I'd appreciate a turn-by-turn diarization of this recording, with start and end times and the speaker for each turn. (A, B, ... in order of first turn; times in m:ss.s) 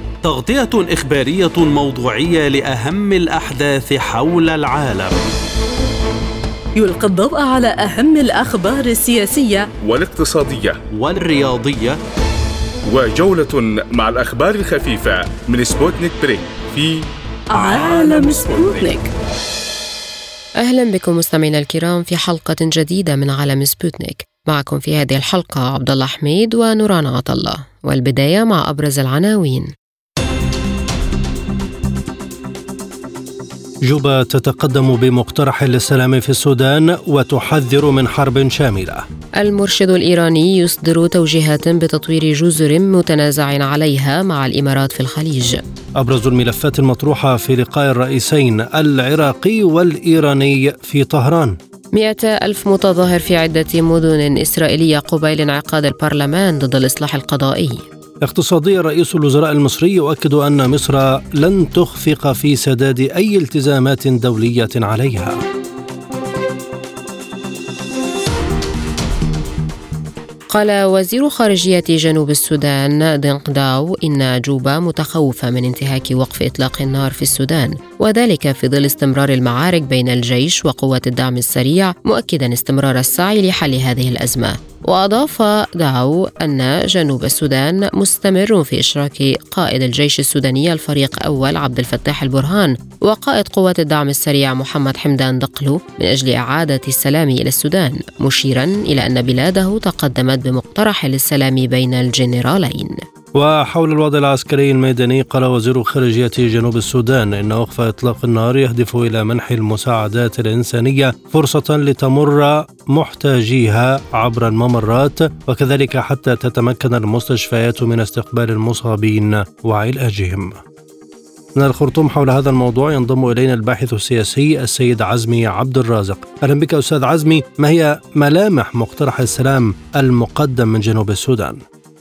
0:00.2-0:05.2 A
0:06.7-0:09.7 B
0:09.8-0:10.8 C
0:10.9-0:12.0 A
0:12.9-0:18.9 C
0:17.5-0:19.1 B
0:20.6-0:29.7 D
0:33.8-0:39.0 E
0:39.4-0:45.6 D
0:46.0-0:51.6 E
0:51.9-0:57.8 D
0:58.2-1:05.4 E
1:10.5-1:42.9 D
1:43.3-2:00.6 E
2:01.6-2:11.6 E